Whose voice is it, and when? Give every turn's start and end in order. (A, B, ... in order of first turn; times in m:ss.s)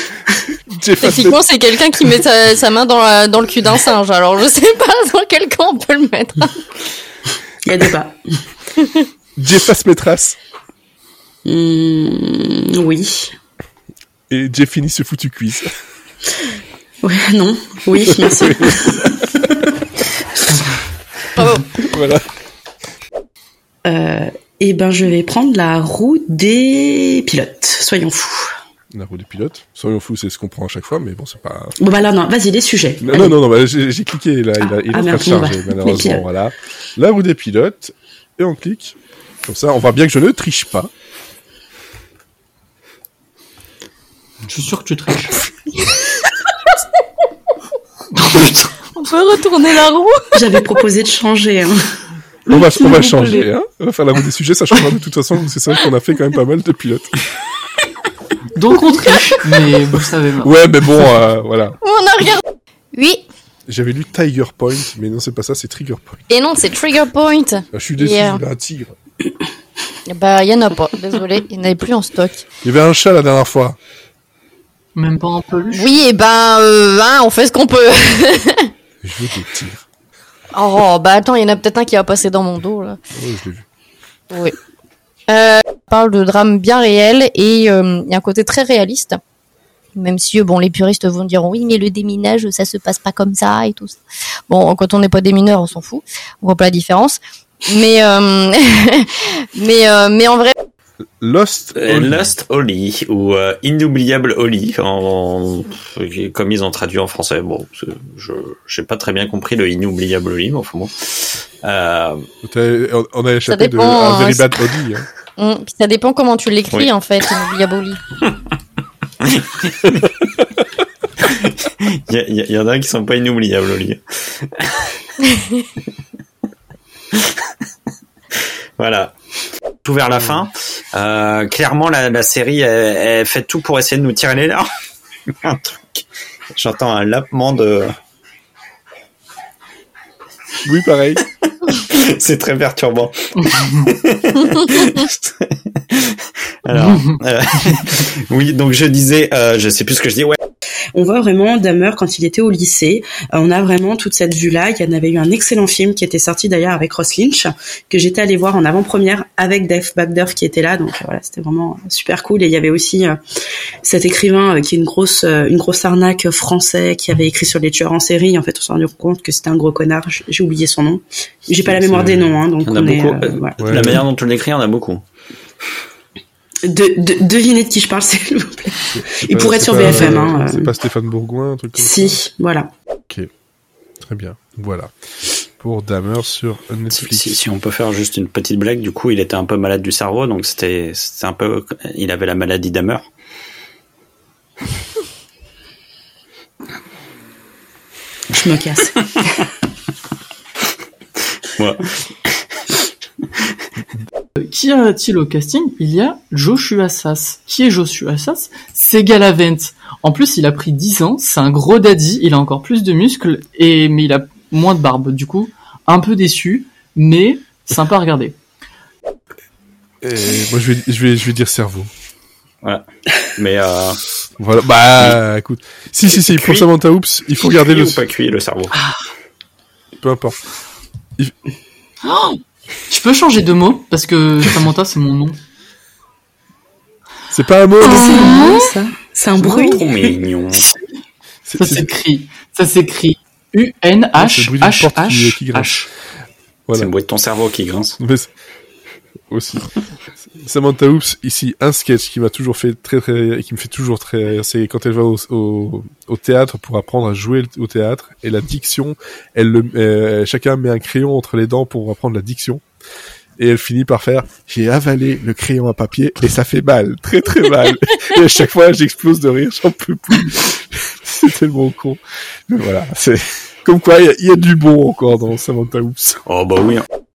0:00.7-0:01.4 A
0:01.0-0:06.6 B
0:07.6-0:08.2 C
0:09.4-0:10.4 A
0:11.4-0:13.3 C
0:14.3-0:15.7 A
0:17.0-0:19.1 C
0:18.2-0:19.7 A
0:21.4-0:21.6 B
0:21.7-0:22.2 A
0:23.8-0:28.5 C
0:28.9-0:31.8 A
0:31.8-0:33.4 C
0:33.0-0:40.9 A
0:34.6-0:36.2 C
0:44.5-0:45.5 D
0:48.2-0:48.8 D
0:48.9-0:50.4 B
0:50.4-0:51.9 C
0:52.5-0:57.1 A
0:52.5-0:53.4 C
0:58.6-1:01.0 D
1:00.4-1:01.8 A
1:01.8-1:03.3 B
1:03.7-1:06.2 A
1:06.3-1:08.4 B
1:07.7-1:08.9 A
1:10.1-1:12.4 B
1:12.6-1:13.8 A
1:15.0-1:15.9 D
1:15.7-1:18.7 B
1:19.0-1:19.8 A
1:20.5-1:23.0 B
1:23.1-1:23.6 A
1:25.3-1:29.2 B
1:30.0-1:34.0 B
1:34.5-1:40.6 B
1:41.2-1:42.3 A
1:41.8-1:52.2 E
1:52.4-1:55.1 A
1:53.5-1:54.5 B
1:55.4-1:58.0 B
1:59.2-2:00.1 E
2:01.2-2:05.0 E
2:07.1-2:07.4 E
2:08.8-2:09.1 E
2:09.8-2:14.7 E
2:10.1-2:10.4 A
2:15.3-2:16.0 E
2:16.6-2:17.9 E
2:20.6-2:21.2 A
2:21.4-2:30.4 E
2:26.8-2:27.0 D
2:31.0-2:43.2 C
2:43.8-2:53.6 C
2:51.7-2:52.4 A
2:52.6-2:55.0 E
2:53.6-2:54.1 A
2:56.7-3:00.7 C
2:58.9-3:02.2 A
3:01.8-3:02.7 C
3:04.1-3:04.9 A
3:05.6-3:07.4 A
3:06.9-3:13.1 E
3:18.3-3:19.3 C
3:21.6-3:22.4 E
3:24.4-3:38.4 D
3:40.0-3:41.9 A
3:43.4-3:44.0 E
3:44.4-3:48.0 A
3:45.0-3:45.2 E
3:46.1-3:46.7 E
3:47.4-3:48.7 E
3:48.7-3:49.0 D
3:50.0-3:50.4 A
3:52.0-3:55.4 D
3:57.3-3:58.4 A
3:57.8-4:00.1 C
3:59.4-4:00.6 E
4:01.4-4:01.9 A
4:01.6-4:05.9 D
4:04.2-4:05.8 A
4:06.8-4:08.0 E
4:08.0-4:08.3 A
4:09.3-4:09.7 A
4:10.2-4:22.6 A
4:23.4-4:36.2 A
4:36.3-4:36.9 E